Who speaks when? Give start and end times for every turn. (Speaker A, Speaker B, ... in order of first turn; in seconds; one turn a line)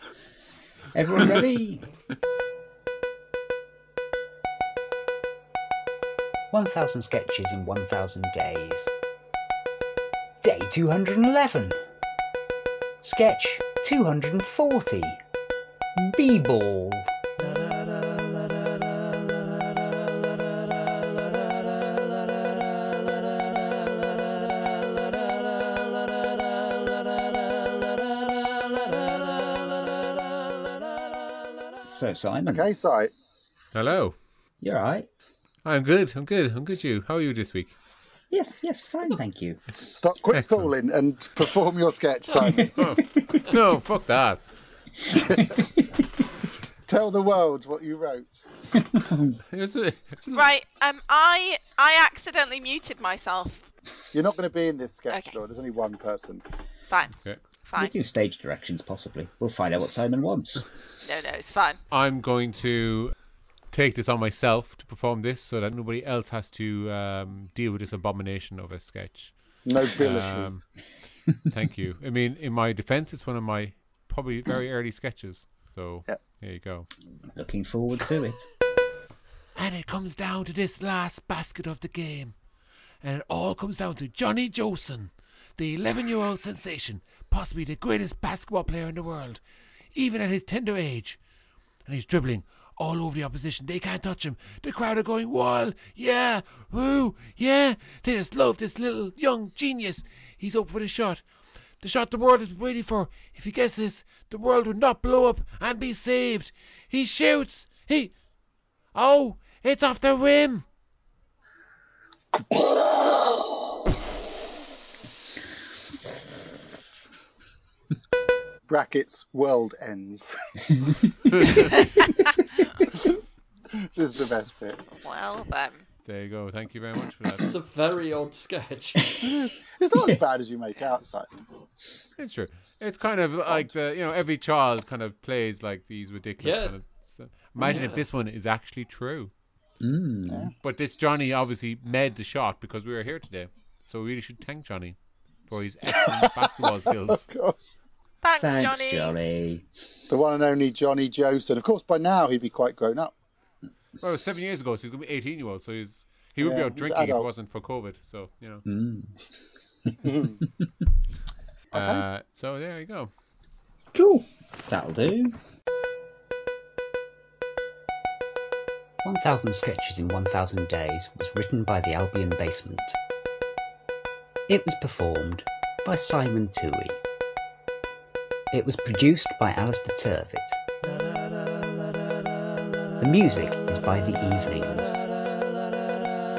Speaker A: 0.9-1.8
Speaker A: 6.5-8.9
Speaker A: 10.4-11.8
Speaker A: 13.0-15.2
Speaker A: 16.0-17.1
Speaker A: 31.8-32.7
Speaker B: 32.5-33.1
Speaker C: 33.7-34.1
Speaker A: 34.6-35.1
Speaker C: 35.6-37.8
Speaker A: 38.3-39.6
Speaker B: 39.9-42.7
Speaker C: 40.3-40.7
Speaker A: 42.5-43.4
Speaker C: 42.8-44.4
Speaker B: 45.1-45.5
Speaker A: 45.4-45.7
Speaker B: 46.9-48.3
Speaker A: 48.7-49.4
Speaker C: 49.5-50.5
Speaker D: 50.3-53.6
Speaker B: 54.1-56.4
Speaker D: 55.1-55.4
Speaker D: 56.9-57.9
Speaker C: 57.1-57.4
Speaker A: 57.8-60.6
Speaker D: 61.0-61.8
Speaker C: 61.9-63.1
Speaker C: 63.7-69.3
Speaker B: 69.6-70.5
Speaker C: 69.9-70.6
Speaker C: 71.5-76.9
Speaker A: 77.3-78.5
Speaker C: 79.5-82.3
Speaker C: 83.0-89.4
Speaker C: 89.9-91.2
Speaker C: 91.8-101.2
Speaker C: 101.8-108.1
Speaker C: 108.9-110.6
Speaker B: 118.7-120.4
Speaker B: 121.0-121.7
Speaker B: 122.8-123.1
Speaker B: 123.9-124.9
Speaker D: 124.9-125.8
Speaker C: 126.0-127.5
Speaker E: 127.4-129.2
Speaker B: 129.2-131.3
Speaker C: 132.2-139.3
Speaker E: 136.4-136.8
Speaker E: 137.6-138.0
Speaker A: 139.8-140.5
Speaker C: 140.6-145.0
Speaker C: 145.5-147.3
Speaker B: 145.9-147.8
Speaker D: 148.2-149.1
Speaker A: 148.4-149.6
Speaker B: 150.1-153.1
Speaker C: 154.0-158.6
Speaker B: 156.4-157.3
Speaker A: 158.7-159.1
Speaker B: 160.0-160.4
Speaker B: 161.7-162.0
Speaker C: 161.7-163.1
Speaker A: 163.9-165.3
Speaker A: 169.0-172.9
Speaker A: 174.5-177.0
Speaker A: 178.5-180.6
Speaker A: 183.0-185.0